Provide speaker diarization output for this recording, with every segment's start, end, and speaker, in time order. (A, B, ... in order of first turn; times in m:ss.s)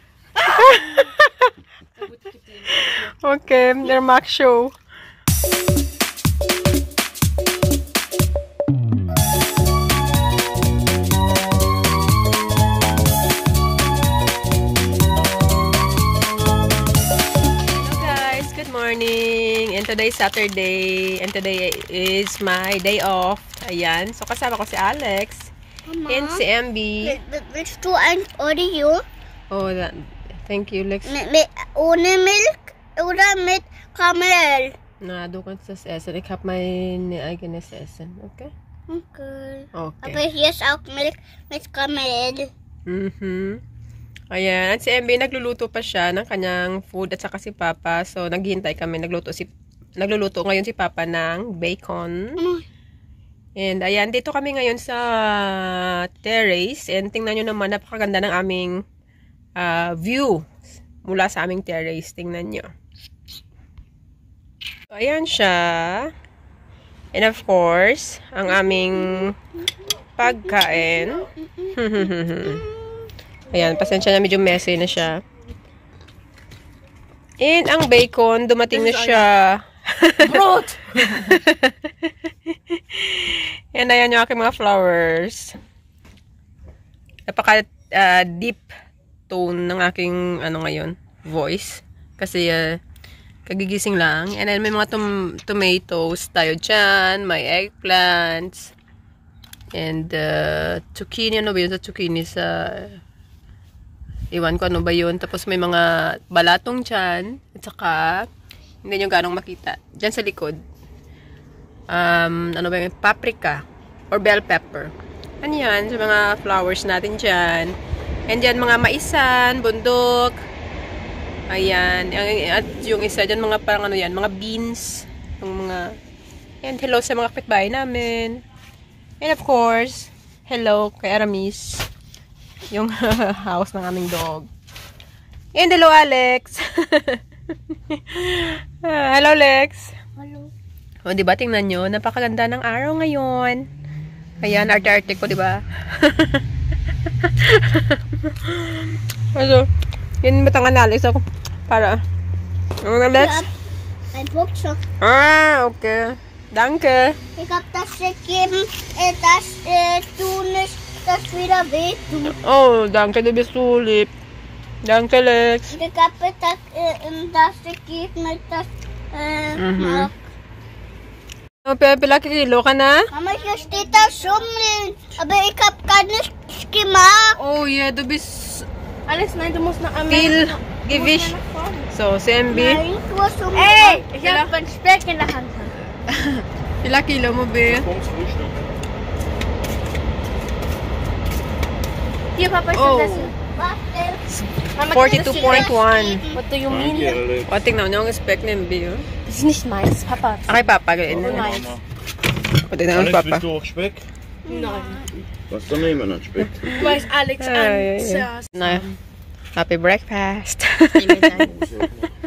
0:00.5-0:01.5 A
0:02.0-0:03.1 B
0:02.8-0:04.8 A
0:17.8-0:25.5 A
0:25.9-0:26.4 C
0:26.1-0:27.2 A
0:27.0-0:29.0 C
0:29.5-0:31.1 A
0:31.1-0:34.8 C
0:35.0-0:38.5 A
0:38.9-0:42.5 C
0:39.8-0:40.2 A
0:42.9-0:43.6 A
0:44.3-0:52.4 A
0:52.4-0:52.6 C
0:53.6-0:58.8 A
0:59.6-1:00.5 A
1:01.0-1:02.7 A
1:04.9-1:06.1 A
1:07.1-1:09.4 A
1:10.2-1:12.6 A
1:13.5-1:15.2 A
1:17.4-1:20.4 A
1:18.7-1:19.3 B
1:20.2-1:21.4 B
1:21.2-1:21.7 A
1:22.7-1:25.6 A
1:27.3-1:28.7 A
1:29.3-1:32.8 A
1:33.5-1:38.7 A
1:39.7-1:43.0 A
1:44.3-1:48.3 A
1:48.8-1:50.6 A
1:51.9-1:57.8 A
1:58.3-2:00.4 A
2:01.5-2:06.0 A
2:06.6-2:08.4 A
2:09.2-2:11.9 A
2:12.7-2:14.5 A
2:15.5-2:19.9 A
2:20.2-2:20.5 B
2:21.0-2:23.7 A
2:24.4-2:26.4 A
2:27.2-2:29.7 A
2:30.2-2:32.0 A
2:32.8-2:33.5 A
2:33.2-2:33.5 C
2:34.1-2:34.8 C
2:35.0-2:37.2 A
2:37.4-2:42.3 C
2:42.2-2:44.1 A
2:44.8-2:45.7 A
2:45.7-2:50.1 C
2:49.6-2:50.1 A
2:51.6-2:53.1 A
2:53.1-2:57.4 C
2:53.2-2:54.5 B
2:57.4-2:58.7 A
2:59.1-3:01.9 B
3:00.1-3:01.4 A
3:01.9-3:02.8 A
3:02.5-3:04.0 C
3:03.5-3:05.8 B
3:04.2-3:04.5 A
3:06.1-3:07.9 A
3:07.6-3:08.6 D
3:12.4-3:13.3 B
3:12.7-3:13.3 A
3:13.5-3:14.2 C
3:14.3-3:16.2 A
3:14.8-3:15.7 B
3:15.2-3:16.4 C
3:16.3-3:17.2 B
3:16.7-3:17.5 D
3:17.5-3:19.1 A
3:19.3-3:21.7 B
3:20.5-3:21.5 A
3:21.1-3:21.8 D
3:22.7-3:23.4 A
3:22.9-3:24.1 D
3:24.5-3:25.0 C
3:24.5-3:25.1 B
3:25.5-3:26.7 D
3:26.7-3:28.8 A
3:26.7-3:29.0 B
3:29.6-3:31.4 A
3:31.0-3:31.5 B
3:31.4-3:32.2 D